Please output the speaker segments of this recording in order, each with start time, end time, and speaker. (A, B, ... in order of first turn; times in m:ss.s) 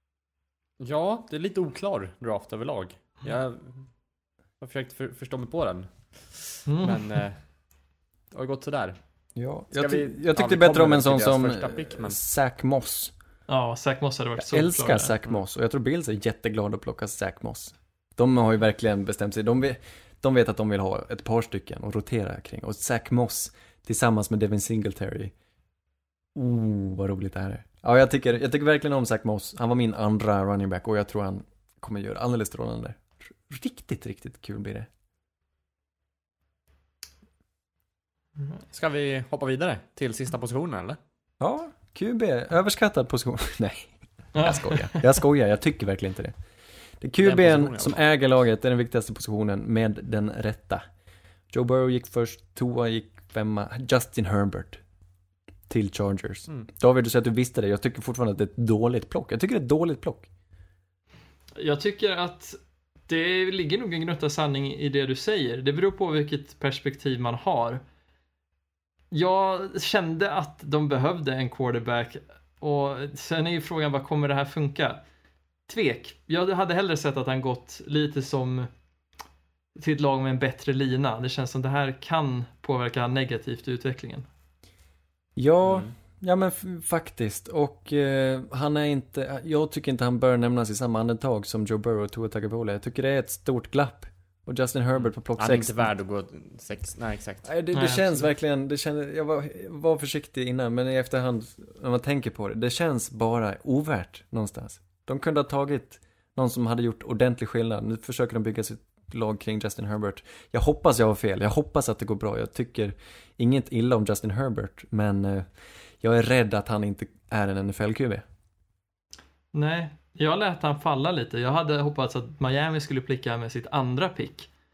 0:00.8-0:03.9 A
0:04.6-0:07.4 A
0:06.6-0:07.0 B
0:08.3-0:09.0 A
0:09.4-0:13.1 C
0:09.7-0:12.2 A
0:13.5-0:15.1 B
0:14.4-0:25.3 C
0:26.3-0:34.9 C
0:38.7-0:41.0 A
0:41.4-0:46.3 C
0:44.3-0:45.1 B
0:47.0-0:50.8 C
0:47.2-0:48.0 A
0:51.5-0:54.8 C
0:55.7-1:00.3 C
1:01.6-1:07.8 B
1:09.1-1:15.0 B
1:15.7-1:18.7 B
1:19.8-1:24.3 B
1:25.4-1:35.9 C
1:25.6-1:25.9 A
1:34.9-1:37.5 A
1:37.4-1:55.5 C
1:37.7-1:38.0 B
1:56.0-1:58.2 C
1:59.5-2:04.5 B